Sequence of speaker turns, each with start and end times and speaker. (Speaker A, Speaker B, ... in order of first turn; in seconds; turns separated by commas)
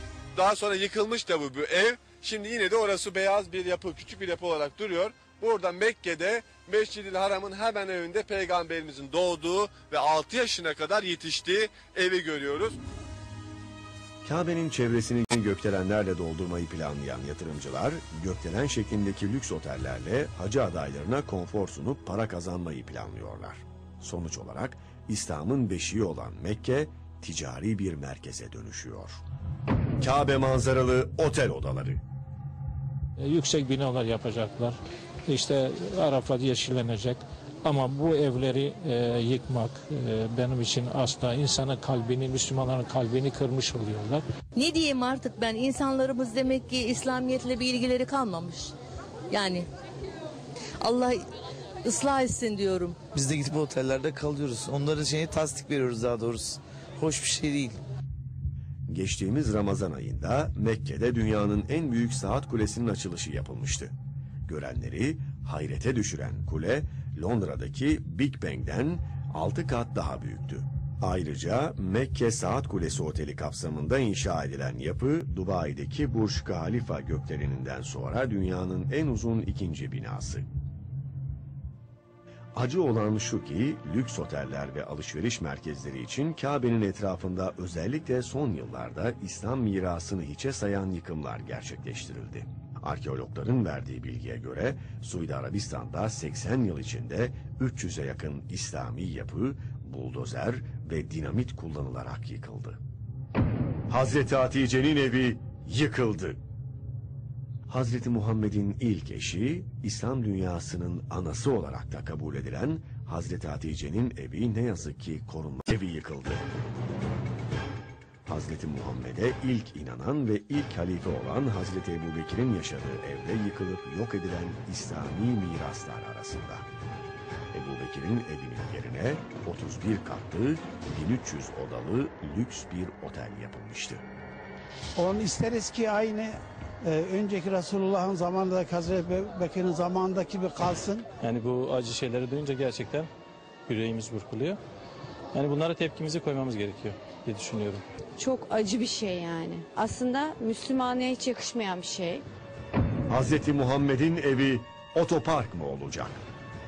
Speaker A: 0.3-12.8, Speaker B: 14.2-29.2, Speaker B: 30.0-32.0, Speaker C: 33.2-44.2, Speaker D: 44.5-48.7, Speaker D: 49.3-49.7, Speaker D: 50.8-51.3, Speaker D: 51.8-53.0, Speaker E: 53.1-57.8, Speaker B: 58.9-63.9, Speaker B: 64.5-80.5, Speaker B: 82.5-102.8, Speaker B: 103.9-106.4, Speaker B: 107.7-116.5, Speaker B: 118.3-126.7, Speaker B: 127.5-134.0, Speaker F: 135.0-141.1, Speaker G: 141.2-143.1, Speaker G: 143.7-144.6, Speaker G: 145.3-147.8, Speaker H: 148.2-152.2, Speaker B: 153.1-156.2